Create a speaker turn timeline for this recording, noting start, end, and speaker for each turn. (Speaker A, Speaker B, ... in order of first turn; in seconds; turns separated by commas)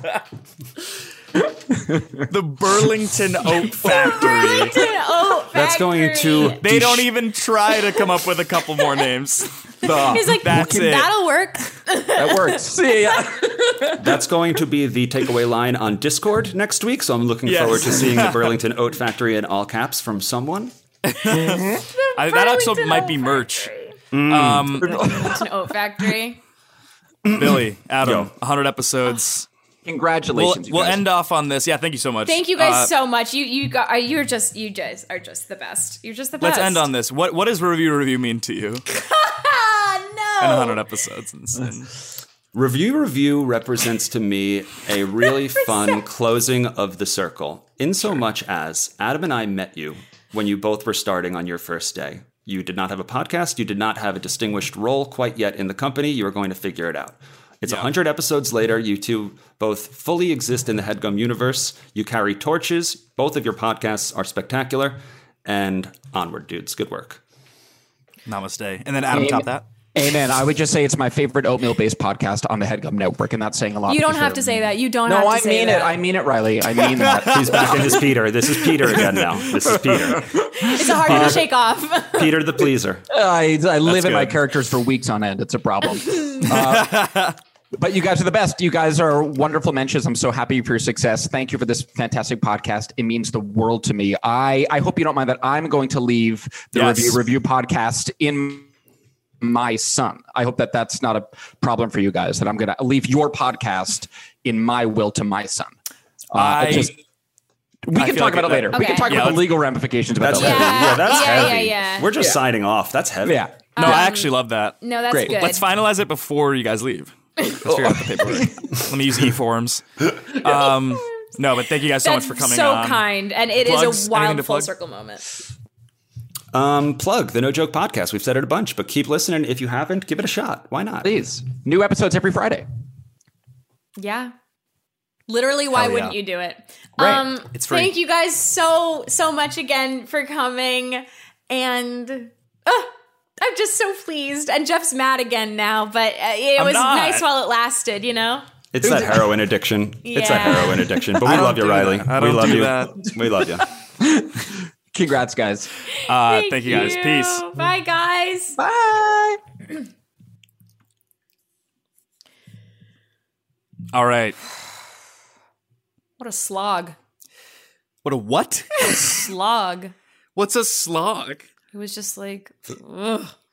Speaker A: 2.3-4.8, Speaker B: 4.1-6.6, Speaker C: 5.5-7.1, Speaker A: 6.5-11.2, Speaker D: 9.8-10.7, Speaker B: 9.9-13.2, Speaker D: 12.2-14.0, Speaker C: 14.0-20.7, Speaker A: 17.4-18.6, Speaker A: 21.1-25.1, Speaker B: 21.3-24.0, Speaker D: 21.5-21.8, Speaker C: 24.1-24.9, Speaker B: 24.9-26.4, Speaker D: 25.0-25.4, Speaker C: 27.3-28.3, Speaker A: 27.3-29.5, Speaker D: 29.9-31.1, Speaker A: 30.3-32.9, Speaker B: 32.2-36.9, Speaker A: 36.4-38.8, Speaker B: 38.9-40.8, Speaker A: 40.4-41.9, Speaker C: 42.5-67.2, Speaker A: 57.6-57.9, Speaker A: 68.3-69.7, Speaker D: 69.1-78.2, Speaker B: 73.9-76.0, Speaker A: 76.9-77.9, Speaker C: 77.3-80.3, Speaker A: 78.8-80.2, Speaker B: 80.6-82.4, Speaker C: 81.1-81.5, Speaker C: 82.1-83.0, Speaker D: 83.1-87.1, Speaker A: 83.8-84.4, Speaker A: 86.5-87.4, Speaker D: 87.8-98.7, Speaker A: 96.7-97.2, Speaker D: 99.4-105.7, Speaker D: 106.3-107.0, Speaker A: 106.3-107.0, Speaker D: 107.8-111.5, Speaker A: 107.9-109.6, Speaker B: 108.7-109.1, Speaker C: 110.2-113.7, Speaker B: 110.3-112.1, Speaker D: 113.2-113.7, Speaker B: 113.8-115.7, Speaker A: 113.8-123.1, Speaker D: 117.7-118.5, Speaker B: 122.0-125.2, Speaker A: 123.6-124.7, Speaker C: 126.5-131.1, Speaker D: 131.0-132.7, Speaker B: 134.0-134.3, Speaker B: 135.3-148.4, Speaker A: 135.7-136.2, Speaker A: 137.0-137.9, Speaker A: 146.6-147.3, Speaker C: 148.7-153.7, Speaker D: 148.8-149.3, Speaker B: 150.0-150.9, Speaker A: 151.2-153.1, Speaker D: 154.0-154.3, Speaker D: 154.9-155.7, Speaker B: 156.0-158.6, Speaker A: 156.1-157.4, Speaker D: 158.6-159.4, Speaker A: 163.9-164.4, Speaker B: 166.2-167.0, Speaker A: 168.0-169.3, Speaker B: 168.8-169.9, Speaker A: 170.4-171.5, Speaker B: 171.7-173.3